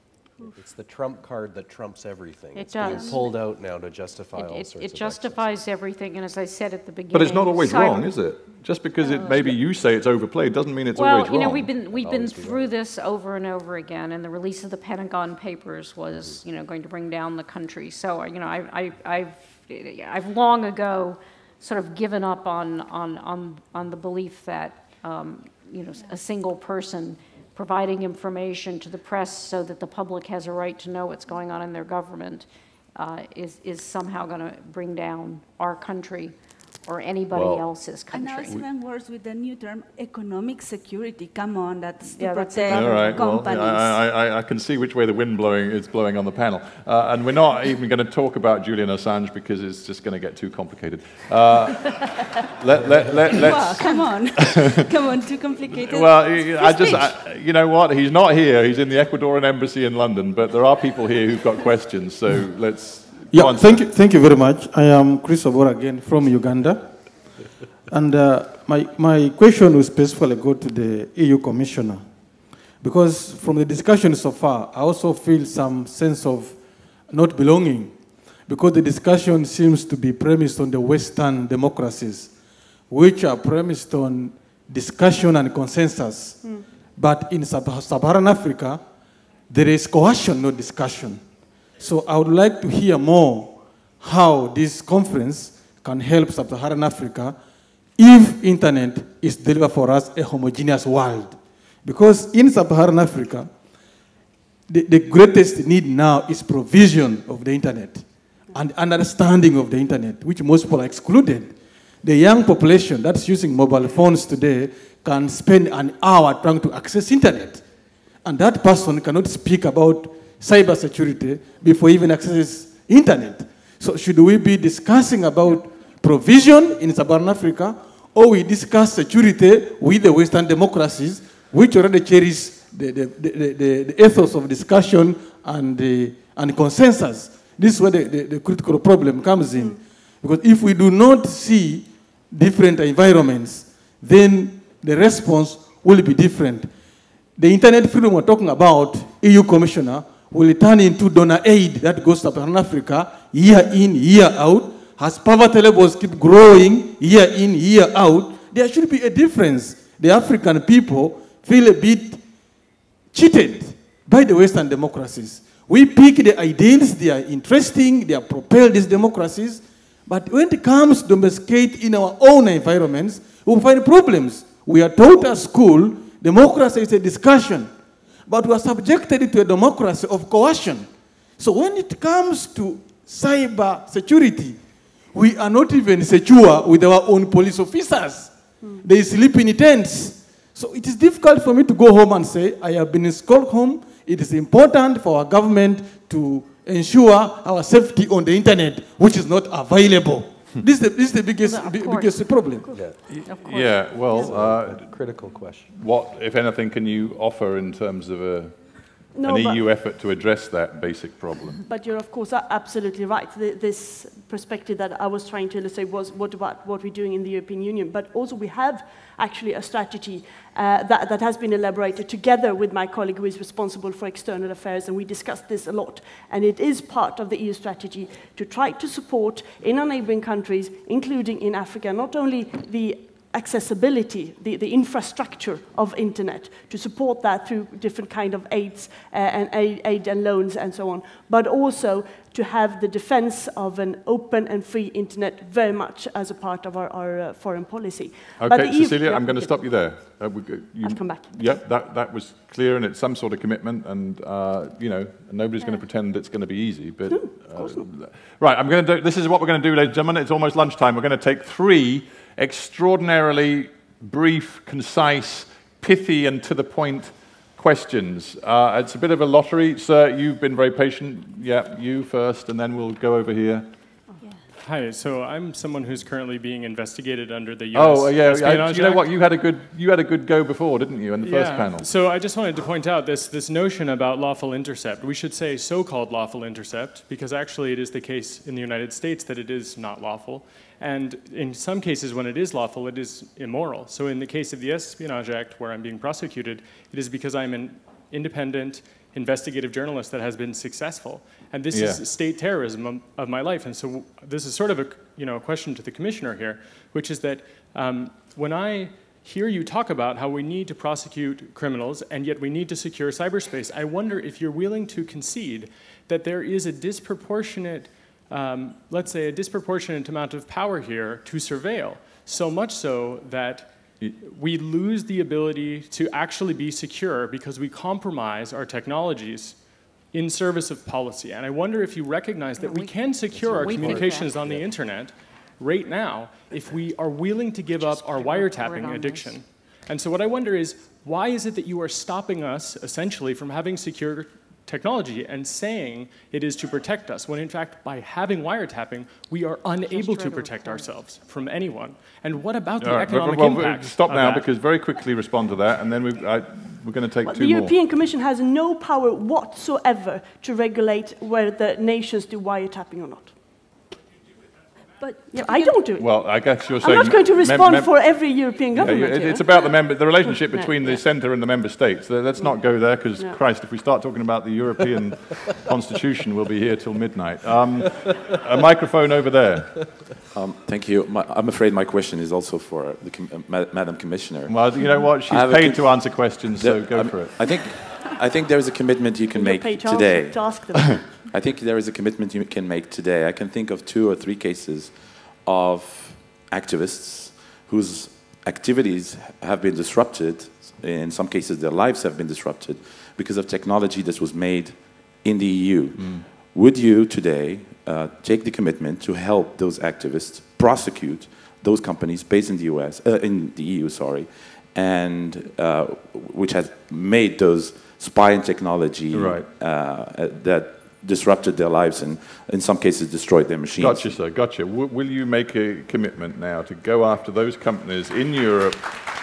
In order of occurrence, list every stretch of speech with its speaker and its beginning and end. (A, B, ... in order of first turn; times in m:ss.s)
0:00.4-0:05.7 A
0:02.5-0:03.4 B
0:04.3-0:08.1 B
0:07.1-0:11.7 C
0:09.0-0:09.6 B
0:10.9-0:36.3 B
0:11.9-0:12.7 A
0:16.1-0:16.4 A
0:36.8-0:38.6 B
0:37.3-0:37.6 C
0:38.1-0:44.0 D
0:42.2-0:43.2 B
0:42.7-0:54.8 C
0:53.3-0:57.1 D
0:55.8-1:03.9 C
1:03.3-1:07.2 E
1:07.9-1:12.1 E
1:12.8-1:22.3 E
1:22.9-1:26.4 E
1:27.0-1:28.8 E
1:29.5-1:31.2 E
1:31.8-1:37.4 E
1:38.0-1:43.5 E
1:44.7-1:57.6 E
1:58.2-2:26.7 E
2:19.5-2:19.8 F
2:27.4-2:42.2 E
2:43.1-2:57.7 E
2:58.3-3:00.9 E
3:01.4-3:04.6 E
3:05.1-3:22.7 E
3:21.4-3:22.3 B
3:22.7-3:23.0 A
3:23.1-3:24.9 C
3:23.3-3:23.9 B
3:24.1-3:25.7 A
3:25.7-3:28.5 C
3:29.1-3:29.6 F
3:29.2-3:31.6 C
3:31.7-4:09.6 F
4:08.4-4:33.7 C
4:10.8-4:11.5 F
4:17.1-4:17.9 F
4:34.6-4:39.1 G
4:37.7-4:41.9 C
4:41.2-5:29.6 G
5:01.7-5:02.0 C
5:30.1-5:54.5 G
5:32.6-5:34.4 B
5:33.3-5:34.7 A
5:37.7-5:39.4 B
5:49.8-5:50.9 B
5:52.8-5:57.7 C
5:57.2-6:03.3 F
6:05.0-6:05.7 D
6:05.3-6:06.2 F
6:06.0-6:08.2 C
6:06.8-6:11.0 F
6:08.7-6:19.8 C
6:20.3-7:04.2 H
6:24.5-6:27.4 C
6:29.3-6:31.1 F
6:45.9-6:46.2 C
6:59.1-6:59.5 C
7:03.8-7:08.9 C